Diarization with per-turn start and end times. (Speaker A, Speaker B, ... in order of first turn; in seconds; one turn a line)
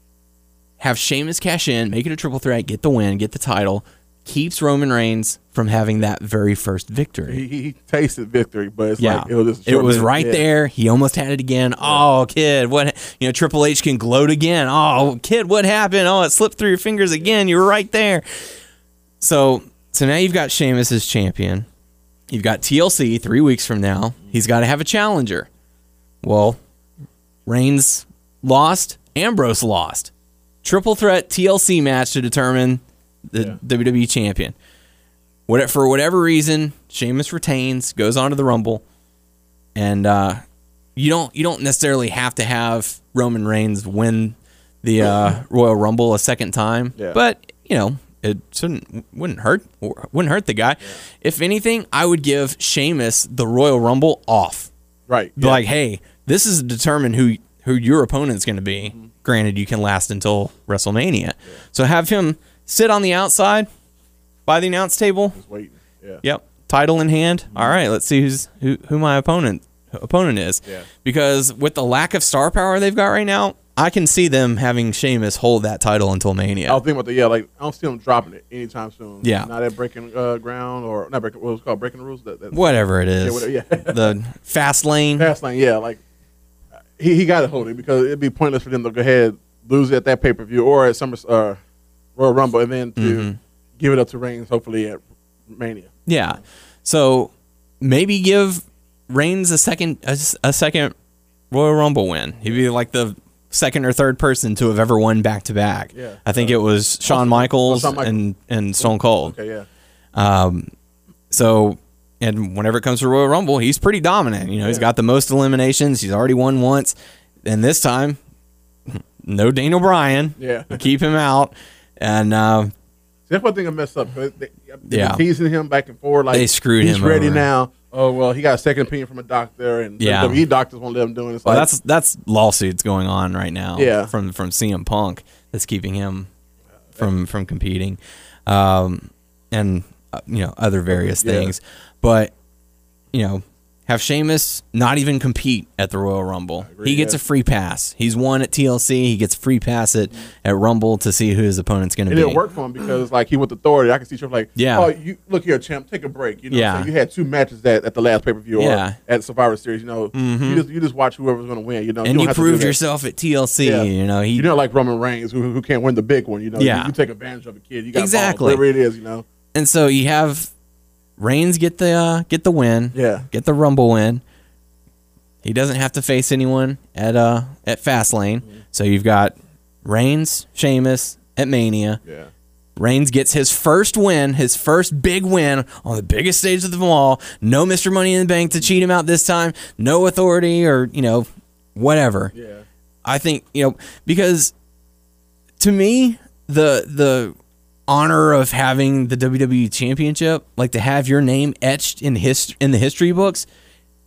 Speaker A: 0.8-7.4
Speaker B: 7.3-10.4
Speaker A: 9.0-18.5
Speaker A: 19.2-21.7
Speaker A: 22.3-25.5
Speaker A: 26.2-26.6
Speaker A: 27.5-30.1
Speaker A: 30.6-34.5
Speaker A: 35.5-38.8
Speaker A: 39.8-40.4
Speaker A: 41.0-54.7
Speaker B: 55.1-55.6
Speaker A: 55.4-63.7
Speaker A: 64.5-65.4
Speaker B: 65.3-66.2
Speaker A: 66.2-76.8
Speaker B: 76.7-82.6
Speaker A: 79.2-79.5
Speaker A: 82.5-85.3
Speaker B: 83.2-84.2
Speaker B: 85.2-86.0
Speaker B: 87.0-91.6
Speaker B: 92.2-95.9
Speaker A: 93.0-93.4
Speaker A: 96.1-100.9
Speaker A: 101.5-109.3
Speaker B: 105.9-108.2
Speaker B: 108.8-109.7
Speaker A: 110.2-110.7
Speaker A: 111.3-118.2
Speaker A: 118.9-122.7
Speaker B: 120.4-120.8
Speaker B: 123.3-131.7
Speaker A: 124.9-125.2
Speaker A: 126.3-127.5
Speaker A: 130.0-130.4
Speaker A: 131.5-136.3
Speaker B: 133.8-134.1
Speaker A: 137.0-142.3
Speaker B: 141.0-141.5
Speaker A: 143.1-152.4
Speaker B: 146.7-147.2
Speaker B: 152.1-162.8
Speaker A: 154.6-154.9
Speaker A: 156.5-156.9
Speaker A: 158.6-159.0
Speaker A: 160.1-160.6
Speaker A: 162.0-164.5
Speaker B: 163.6-169.2
Speaker A: 166.6-166.9
Speaker A: 167.9-168.7
Speaker A: 169.5-170.5
Speaker A: 171.2-174.2
Speaker B: 172.9-173.3
Speaker A: 175.4-182.0
Speaker B: 182.1-182.3
Speaker A: 182.8-192.3
Speaker B: 192.3-192.6
Speaker A: 193.1-194.5
Speaker A: 195.6-197.3
Speaker A: 197.9-203.5